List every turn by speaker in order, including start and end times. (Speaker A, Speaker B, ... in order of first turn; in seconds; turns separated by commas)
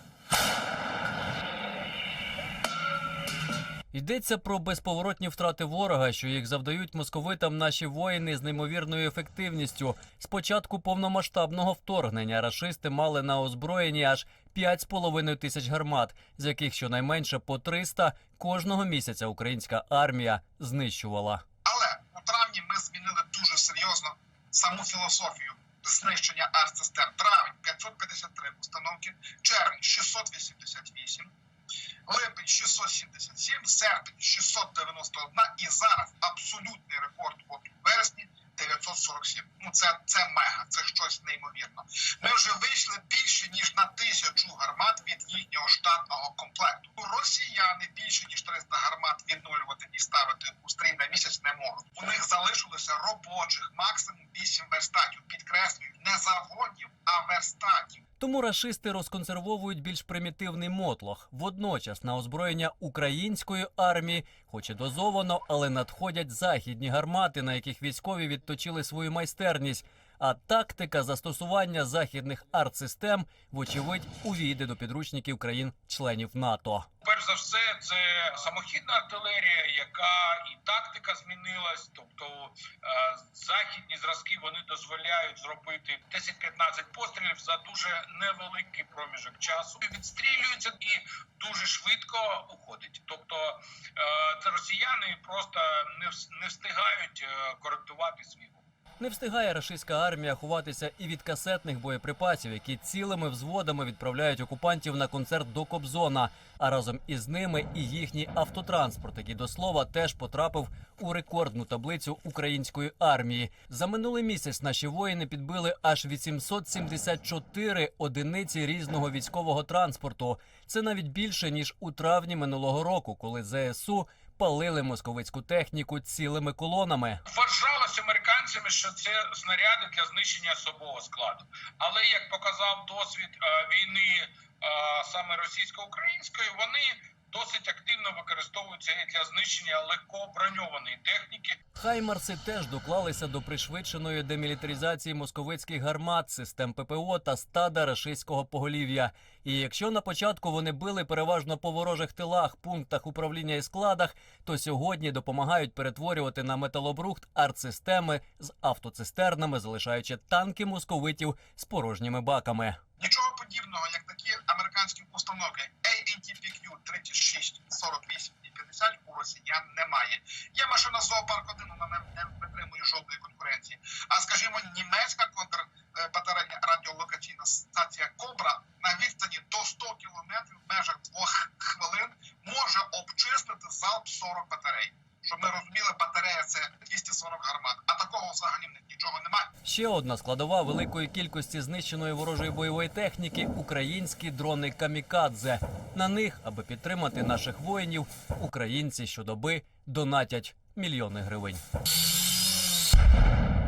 Speaker A: 3.9-21.4, Speaker B: 21.6-31.3, Speaker B: 32.1-58.0, Speaker A: 58.2-76.9, Speaker C: 77.0-98.6, Speaker A: 99.0-127.2, Speaker C: 127.2-141.6, Speaker A: 141.7-162.8, Speaker B: 163.0-189.5, Speaker A: 189.6-201.6